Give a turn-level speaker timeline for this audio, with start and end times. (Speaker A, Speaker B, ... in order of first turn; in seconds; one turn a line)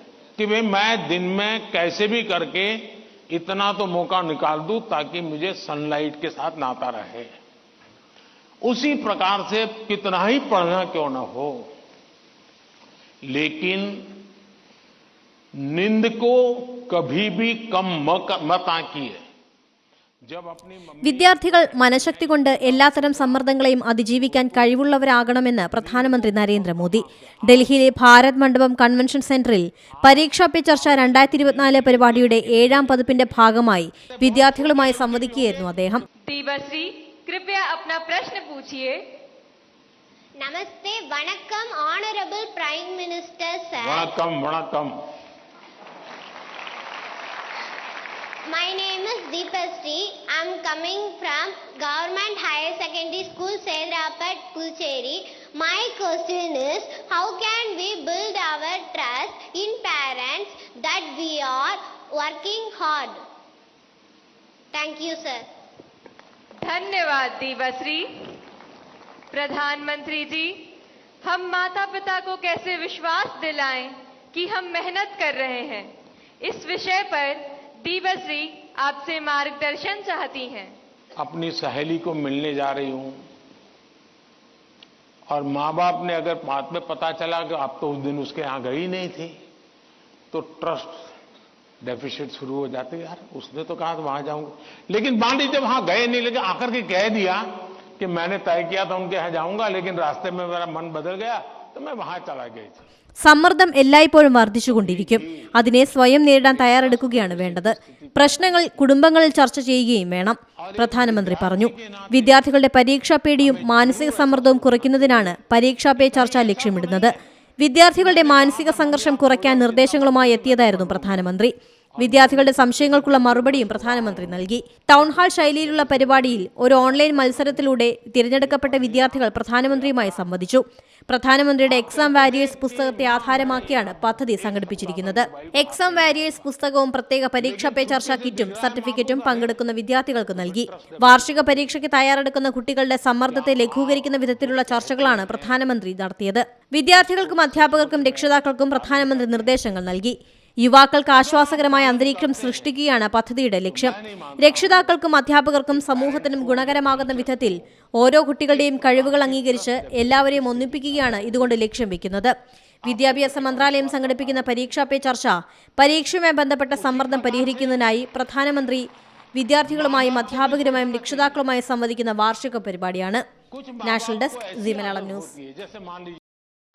Speaker A: 0.4-7.3
Speaker A: 8.6-11.7
Speaker A: 13.3-14.1
Speaker A: 15.6-19.2
Speaker A: 20.2-25.0
Speaker B: 21.0-36.0
Speaker A: 25.6-27.9
Speaker A: 30.0-35.8
Speaker C: 36.2-39.0
Speaker D: 40.4-44.1
Speaker A: 43.8-45.0
Speaker D: 48.5-63.2
Speaker D: 64.7-65.4
Speaker C: 66.6-68.3
Speaker C: 69.3-70.7
Speaker C: 71.2-75.9
Speaker C: 76.4-80.7
Speaker A: 81.2-83.2
Speaker A: 85.3-89.3
Speaker A: 90.3-91.1
Speaker A: 91.8-97.5
Speaker A: 98.0-102.8
Speaker B: 103.2-162.3
Speaker A: 104.7-105.6
Speaker A: 106.4-108.9
Speaker A: 110.6-112.5
Speaker A: 113.4-115.4
Speaker A: 116.0-117.1
Speaker A: 117.9-121.3
Speaker A: 122.0-127.8
Speaker A: 128.4-130.3
Speaker A: 131.6-136.5
Speaker A: 137.4-139.6
Speaker A: 140.3-141.7
Speaker A: 143.2-145.7
Speaker A: 146.9-149.6
Speaker A: 151.1-152.7
Speaker A: 153.7-155.0
Speaker A: 155.7-157.6
Speaker A: 158.5-161.7
Speaker A: 162.8-164.7
Speaker B: 162.9-173.2
Speaker A: 166.7-168.0
Speaker A: 169.6-171.4
Speaker A: 173.5-176.2
Speaker B: 173.8-175.3